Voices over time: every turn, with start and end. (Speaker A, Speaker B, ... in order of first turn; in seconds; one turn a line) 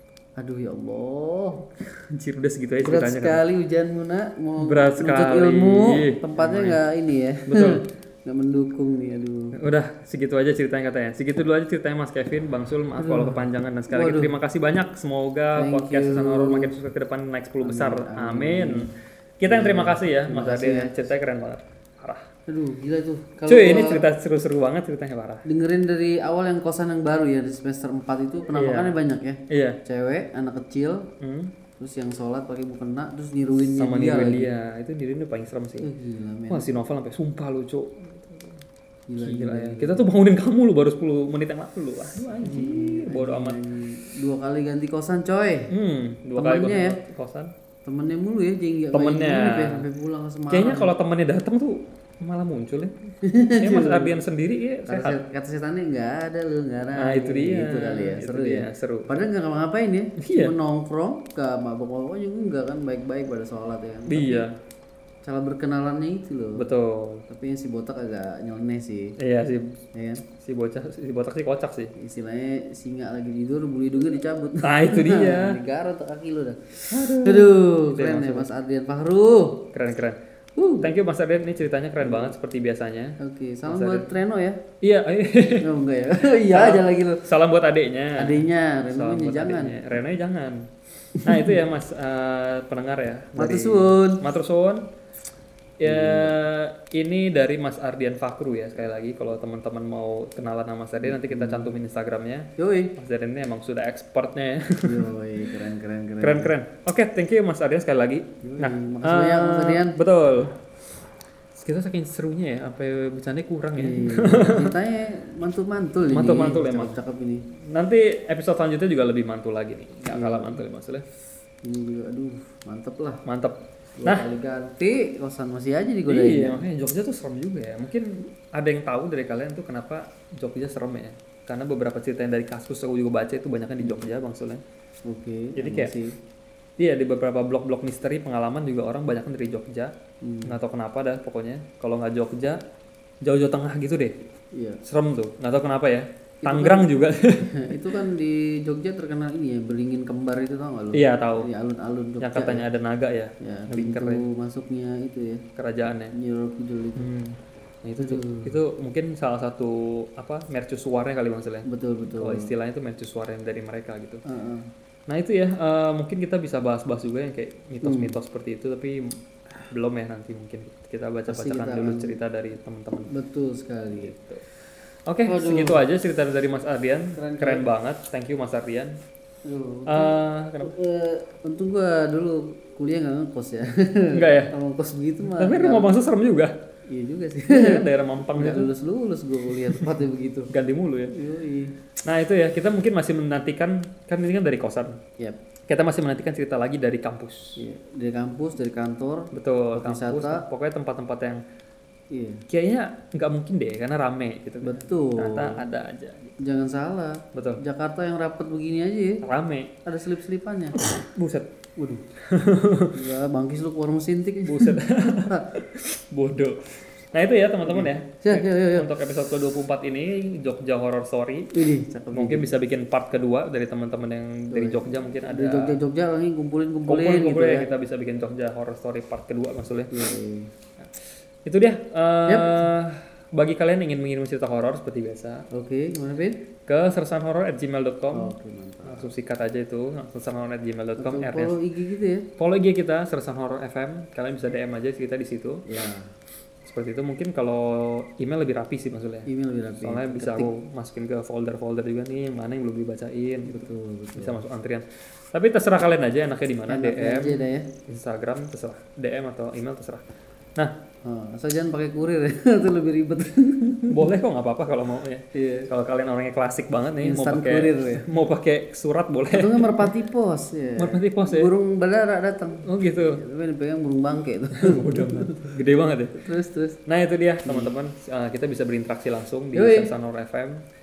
Speaker A: 0.4-1.7
Speaker B: 1.9-3.4
Speaker A: 2.8-9.6
Speaker B: 4.6-6.8
Speaker B: 7.5-7.8
Speaker B: 9.6-22.2
Speaker A: 13.0-14.3
Speaker A: 15.6-16.7
Speaker A: 17.6-18.9
Speaker A: 19.5-21.0
Speaker A: 22.5-24.1
Speaker B: 23.4-25.4
Speaker A: 25.4-31.1
Speaker B: 28.5-29.0
Speaker B: 29.5-29.8
Speaker B: 31.2-31.5
Speaker A: 31.8-34.5
Speaker B: 33.6-35.9
Speaker A: 35.8-36.7
Speaker B: 36.5-38.6
Speaker A: 39.1-40.1
Speaker B: 39.2-43.6
Speaker A: 42.4-45.7
Speaker B: 45.7-47.5
Speaker A: 46.4-47.0
Speaker A: 47.9-50.9
Speaker B: 48.9-49.9
Speaker B: 50.5-52.9
Speaker A: 53.2-54.2
Speaker B: 53.6-55.2
Speaker A: 54.9-64.5
Speaker B: 57.0-59.2
Speaker B: 60.2-60.5
Speaker B: 64.1-64.6
Speaker A: 65.2-66.7
Speaker B: 66.6-67.2
Speaker A: 67.3-69.2
Speaker B: 69.2-69.8
Speaker A: 69.9-70.2
Speaker B: 70.3-71.9
Speaker A: 72.0-79.7
Speaker B: 74.6-75.6
Speaker B: 76.9-78.5
Speaker B: 79.7-80.2
Speaker A: 80.6-80.9
Speaker B: 80.8-83.2
Speaker A: 82.0-82.3
Speaker A: 83.2-84.6
Speaker B: 83.7-84.2
Speaker B: 84.8-85.7
Speaker A: 85.6-87.3
Speaker B: 86.5-90.7
Speaker A: 88.2-90.0
Speaker A: 91.2-91.6
Speaker B: 91.2-94.8
Speaker A: 93.4-94.2
Speaker B: 95.8-105.1
Speaker A: 95.8-96.3
Speaker A: 101.0-101.7
Speaker A: 102.6-102.9
Speaker A: 104.8-106.5
Speaker B: 106.2-110.6
Speaker A: 108.4-110.0
Speaker B: 111.5-114.8
Speaker A: 113.8-117.5
Speaker B: 116.1-117.0
Speaker B: 117.5-121.0
Speaker A: 120.1-120.6
Speaker A: 121.6-123.2
Speaker B: 123.2-124.3
Speaker A: 124.0-126.6
Speaker B: 126.0-134.6
Speaker A: 133.8-134.1
Speaker A: 135.1-136.2
Speaker B: 135.6-136.0
Speaker B: 136.8-139.9
Speaker A: 140.2-140.6
Speaker B: 140.4-142.6
Speaker B: 143.2-144.2
Speaker A: 144.5-144.8
Speaker B: 144.8-148.0
Speaker A: 146.4-152.7
Speaker B: 150.9-151.5
Speaker B: 152.2-154.2
Speaker A: 153.4-155.4
Speaker B: 155.6-156.1
Speaker A: 156.1-157.1
Speaker B: 157.0-164.2
Speaker A: 158.0-158.6
Speaker A: 161.7-162.5
Speaker A: 164.3-164.7
Speaker B: 165.1-173.1
Speaker A: 167.8-168.2
Speaker A: 171.3-172.2
Speaker A: 173.1-174.1
Speaker B: 173.9-174.4
Speaker B: 175.1-179.0
Speaker A: 175.2-175.8
Speaker A: 177.1-177.7
Speaker A: 179.5-185.9
Speaker B: 179.9-180.7
Speaker B: 184.1-184.5
Speaker B: 185.4-186.5
Speaker A: 186.9-190.5
Speaker B: 187.5-188.7
Speaker B: 189.5-189.9
Speaker B: 190.5-191.1
Speaker A: 191.1-191.8
Speaker B: 192.0-195.0
Speaker B: 195.7-197.6
Speaker A: 197.6-200.4
Speaker B: 199.3-201.4
Speaker A: 202.1-202.4
Speaker B: 202.5-206.4
Speaker A: 204.6-205.6
Speaker A: 206.4-209.2
Speaker B: 207.3-207.6
Speaker B: 209.2-209.7
Speaker A: 209.8-210.8
Speaker B: 210.8-211.5
Speaker A: 211.8-212.0
Speaker B: 212.2-213.0
Speaker A: 212.9-215.5
Speaker B: 214.4-225.8
Speaker A: 217.7-218.9
Speaker A: 221.5-222.5
Speaker A: 224.5-227.7
Speaker B: 226.9-230.0
Speaker A: 229.9-230.5
Speaker B: 231.4-235.5
Speaker A: 232.3-232.7
Speaker A: 235.5-236.4
Speaker B: 236.7-238.3
Speaker A: 238.1-239.1
Speaker B: 238.8-241.6
Speaker A: 241.0-242.3
Speaker B: 242.4-245.7
Speaker A: 245.7-246.1
Speaker B: 246.6-260.1
Speaker A: 249.3-250.5
Speaker A: 253.4-254.4
Speaker A: 256.7-257.7
Speaker A: 261.0-264.1
Speaker B: 263.9-269.9
Speaker A: 265.3-265.7
Speaker A: 267.0-268.1
Speaker A: 269.3-275.5
Speaker B: 270.8-271.5
Speaker B: 272.6-273.2
Speaker B: 274.6-276.2
Speaker A: 276.1-276.8
Speaker B: 276.9-280.6
Speaker A: 277.4-277.7
Speaker A: 279.5-279.9